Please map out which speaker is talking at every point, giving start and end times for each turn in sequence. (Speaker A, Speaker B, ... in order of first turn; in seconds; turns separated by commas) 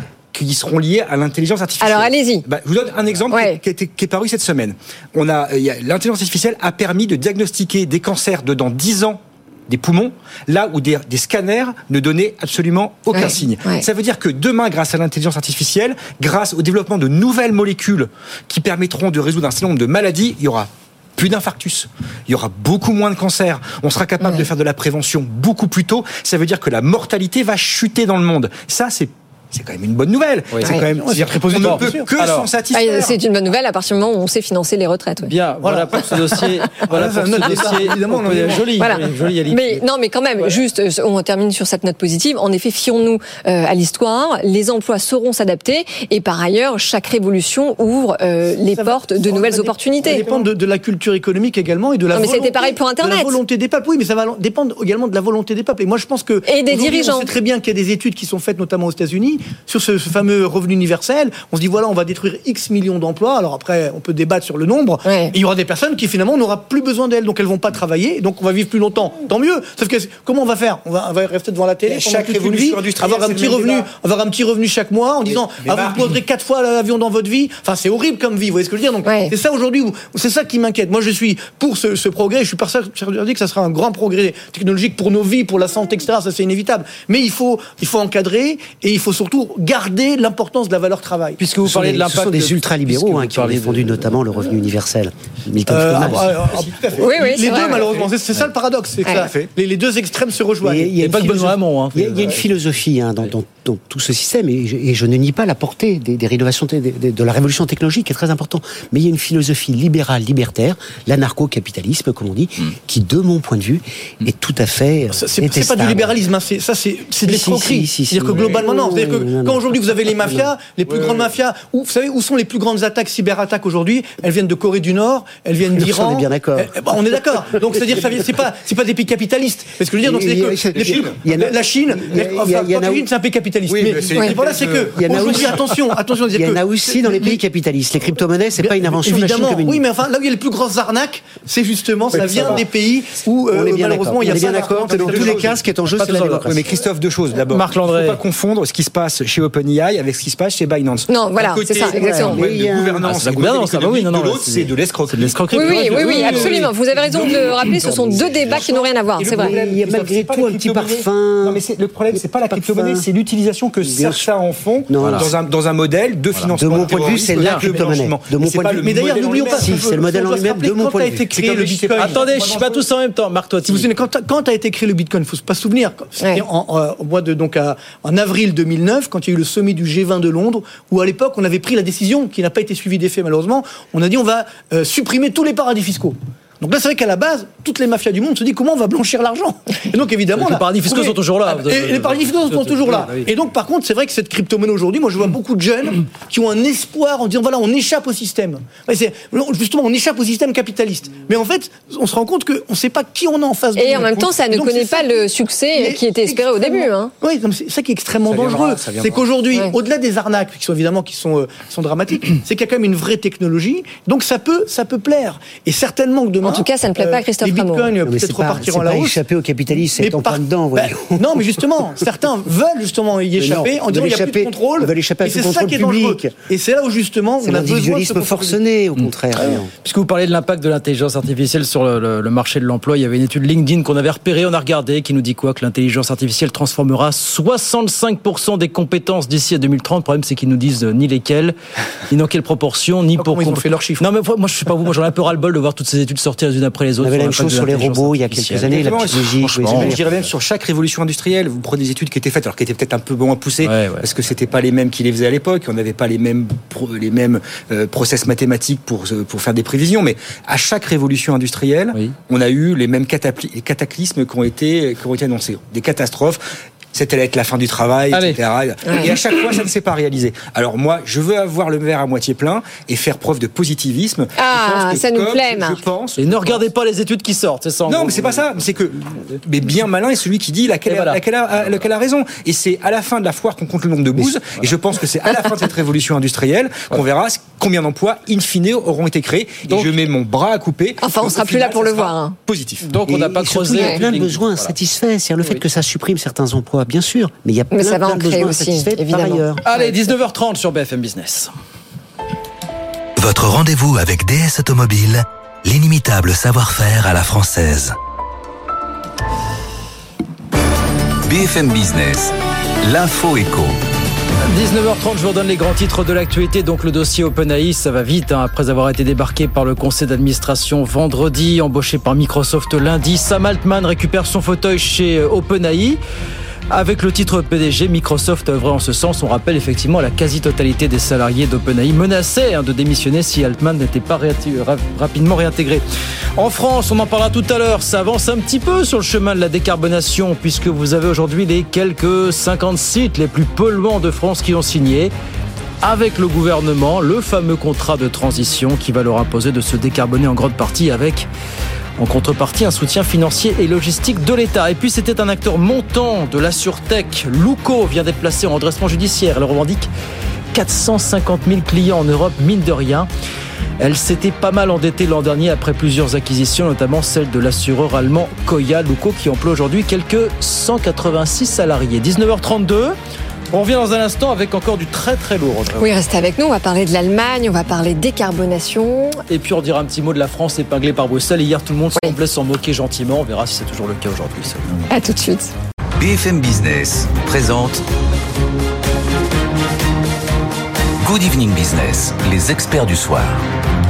Speaker A: 0.3-33.2, Speaker B: 1.8-2.4, Speaker B: 3.3-3.6, Speaker B: 13.1-13.8, Speaker B: 24.2-24.5, Speaker C: 30.5-30.8, Speaker D: 31.0-32.1, Speaker C: 31.5-32.5, Speaker B: 32.7-35.4, Speaker C: 35.2-39.8, Speaker D: 35.6-39.0, Speaker B: 38.6-50.3, Speaker D: 48.7-91.4, Speaker B: 52.1-53.4, Speaker B: 56.5-57.3, Speaker B: 65.0-65.3, Speaker A: 71.8-73.9, Speaker A: 75.2-76.2, Speaker B: 79.0-79.3, Speaker C: 91.4-94.2, Speaker E: 91.6-96.5, Speaker D: 95.7-101.5, Speaker B: 97.0-97.9, Speaker A: 99.1-99.5, Speaker E: 100.6-116.2, Speaker C: 100.9-102.5, Speaker D: 115.1-137.4, Speaker E: 117.2-119.6, Speaker C: 120.9-121.3, Speaker E: 125.7-128.3, Speaker E: 130.0-133.0, Speaker A: 130.7-131.2, Speaker A: 133.7-135.9, Speaker E: 134.9-139.8, Speaker D: 138.6-145.5, Speaker E: 142.1-142.6, Speaker A: 142.1-142.6, Speaker E: 143.5-146.7, Speaker A: 144.2-170.0, Speaker C: 146.1-146.4, Speaker C: 147.4-148.2, Speaker B: 151.1-152.4, Speaker E: 151.9-153.2, Speaker C: 153.0-156.7, Speaker B: 155.5-159.6, Speaker E: 157.7-158.6, Speaker E: 159.2-161.6, Speaker E: 162.1-163.1, Speaker E: 163.8-164.3, Speaker E: 164.9-165.3, Speaker C: 165.0-165.3, Speaker E: 166.5-171.2, Speaker C: 167.2-167.6, Speaker D: 168.8-172.8, Speaker A: 171.3-172.3, Speaker C: 171.9-173.9, Speaker D: 173.7-219.2, Speaker B: 176.2-176.4, Speaker C: 190.3-193.3, Speaker B: 203.8-207.1, Speaker A: 208.2-209.4, Speaker B: 216.4-217.9, Speaker E: 218.0-221.4, Speaker D: 219.9-228.6, Speaker E: 223.4-226.3, Speaker E: 227.4-229.7, Speaker C: 229.0-241.5, Speaker C: 242.1-250.0, Speaker D: 243.2-244.0, Speaker E: 247.0-250.0, Speaker A: 248.7-276.6, Speaker C: 253.6-254.1, Speaker C: 268.1-268.4, Speaker B: 268.8-269.1, Speaker B: 274.4-275.8, Speaker C: 276.2-278.6, Speaker A: 277.9-292.9, Speaker C: 280.8-281.2, Speaker C: 289.7-290.0, Speaker B: 291.0-292.4, Speaker C: 292.8-294.8, Speaker E: 293.1-299.6, Speaker B: 297.7-299.9, Speaker C: 299.6-301.5, Speaker F: 303.2-307.9, Speaker F: 311.2-313.8, Speaker C: 314.5-326.0, Speaker C: 326.7-335.9, Speaker C: 336.4-345.1, Speaker C: 345.8-351.3, Speaker C: 352.0-359.9, Speaker C: 360.5-363.1, Speaker C: 363.8-372.9, Speaker C: 373.5-375.9, Speaker B: 375.8-379.2, Speaker C: 379.3-384.9, Speaker B: 384.9-385.5, Speaker F: 386.0-387.8, Speaker F: 391.0-393.4